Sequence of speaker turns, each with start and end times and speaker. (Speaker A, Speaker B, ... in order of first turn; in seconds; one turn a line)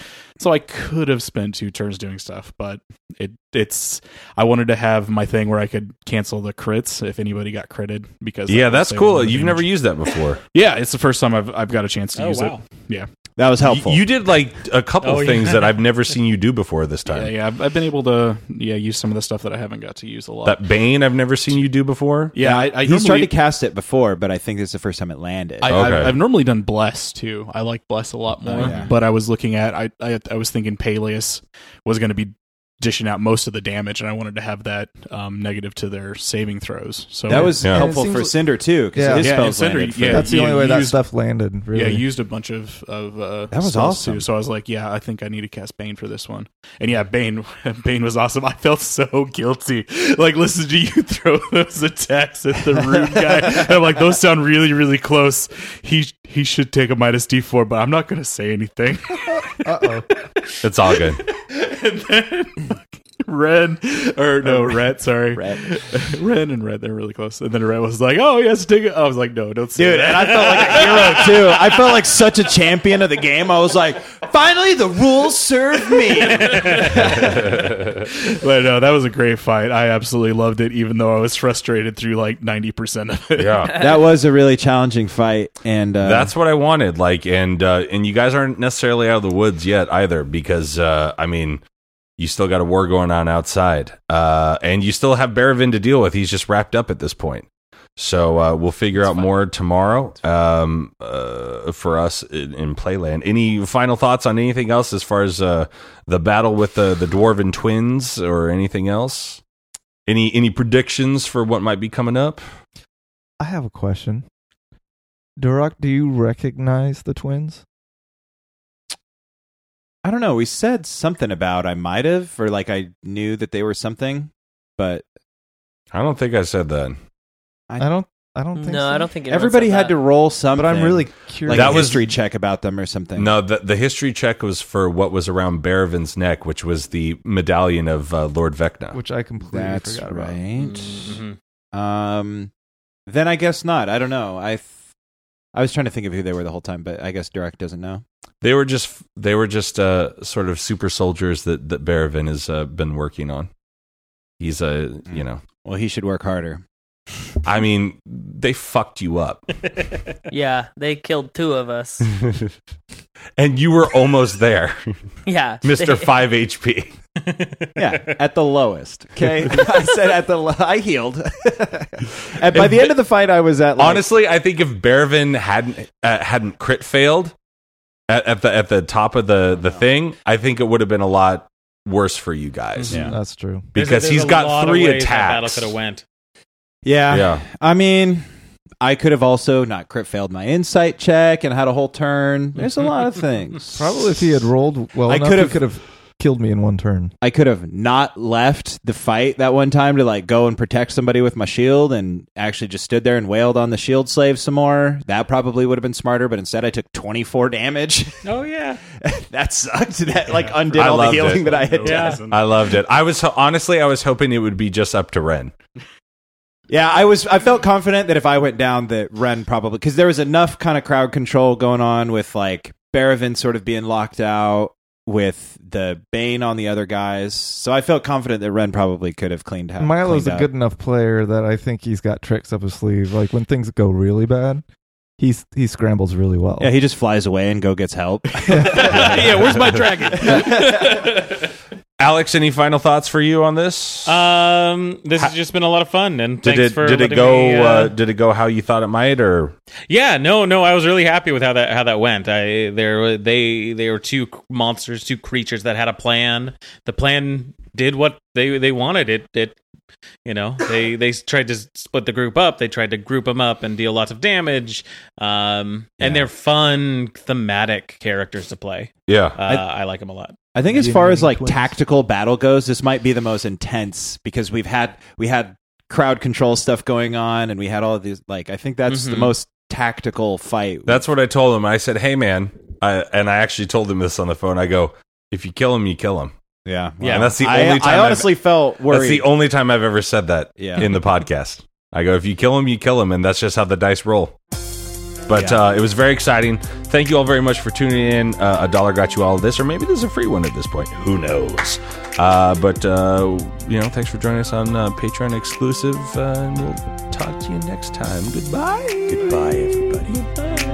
Speaker A: 0.4-9.7
Speaker B: 8.5-10.4
Speaker A: 10.5-13.1
Speaker C: 12.2-12.6
Speaker D: 13.4-14.0
Speaker B: 13.6-17.3
Speaker C: 15.0-15.8
Speaker A: 17.1-20.7
Speaker B: 20.4-22.4
Speaker A: 22.3-23.3
Speaker D: 22.4-25.9
Speaker A: 25.6-37.5
Speaker B: 25.7-26.2
Speaker D: 28.5-28.9
Speaker D: 37.3-40.3
Speaker E: 37.3-38.4
Speaker B: 37.6-37.9
Speaker E: 38.9-39.4
Speaker A: 39.2-41.0
Speaker E: 40.0-42.0
Speaker A: 41.7-71.7
Speaker D: 43.5-44.2
Speaker E: 59.6-60.0
Speaker B: 60.6-61.2
Speaker D: 64.4-64.8
Speaker D: 65.3-65.6
Speaker D: 69.8-77.4
Speaker A: 76.3-83.7
Speaker B: 83.4-83.7
Speaker F: 83.7-84.0
Speaker D: 83.8-86.3
Speaker B: 86.0-91.6
Speaker B: 92.2-109.4
Speaker D: 99.0-99.3
Speaker B: 110.1-112.4
Speaker E: 113.4-114.2
Speaker E: 115.4-117.6
Speaker D: 120.0-125.0
Speaker B: 125.9-127.0
Speaker E: 127.8-129.1
Speaker F: 128.6-129.9
Speaker D: 129.3-133.4
Speaker E: 130.5-132.1
Speaker B: 131.5-132.0
Speaker B: 133.2-139.0
Speaker E: 138.9-140.4
Speaker D: 139.4-141.2
Speaker C: 140.6-141.4
Speaker D: 141.7-142.5
Speaker D: 143.1-144.7
Speaker D: 145.6-148.0
Speaker B: 148.4-153.5
Speaker B: 154.4-155.4
Speaker D: 155.1-156.6
Speaker B: 157.4-159.4
Speaker F: 160.3-162.1
Speaker B: 163.4-165.0
Speaker F: 165.2-166.2
Speaker B: 165.6-166.9
Speaker C: 167.2-168.1
Speaker D: 167.8-174.1
Speaker B: 172.5-172.9
Speaker B: 173.8-177.3
Speaker B: 178.1-183.0
Speaker D: 182.9-183.2
Speaker E: 182.9-183.7
Speaker B: 183.7-185.7
Speaker C: 183.8-186.0
Speaker D: 186.8-188.3
Speaker B: 187.1-187.4
Speaker D: 188.8-194.4
Speaker E: 193.8-197.1
Speaker D: 195.1-195.6
Speaker D: 197.2-208.2
Speaker C: 208.2-208.8
Speaker D: 209.0-212.2
Speaker A: 210.3-212.7
Speaker B: 210.7-211.6
Speaker C: 211.8-212.2
Speaker B: 212.2-215.5
Speaker D: 216.7-230.5
Speaker E: 229.8-234.6
Speaker E: 235.2-236.7
Speaker D: 236.6-239.3
Speaker E: 238.5-238.9
Speaker A: 238.7-240.8
Speaker B: 242.0-244.1
Speaker C: 244.1-247.9
Speaker B: 246.4-249.6
Speaker C: 249.9-259.6
Speaker C: 260.2-270.4
Speaker D: 266.0-266.3
Speaker B: 269.1-269.4
Speaker D: 270.5-281.0
Speaker E: 270.6-271.7
Speaker C: 278.9-279.4
Speaker B: 280.9-286.3
Speaker D: 286.6-289.3
Speaker C: 287.0-287.3
Speaker B: 287.0-288.3
Speaker B: 288.8-294.4
Speaker D: 290.6-290.9
Speaker B: 295.3-310.2
Speaker D: 295.3-295.6
Speaker D: 309.1-310.2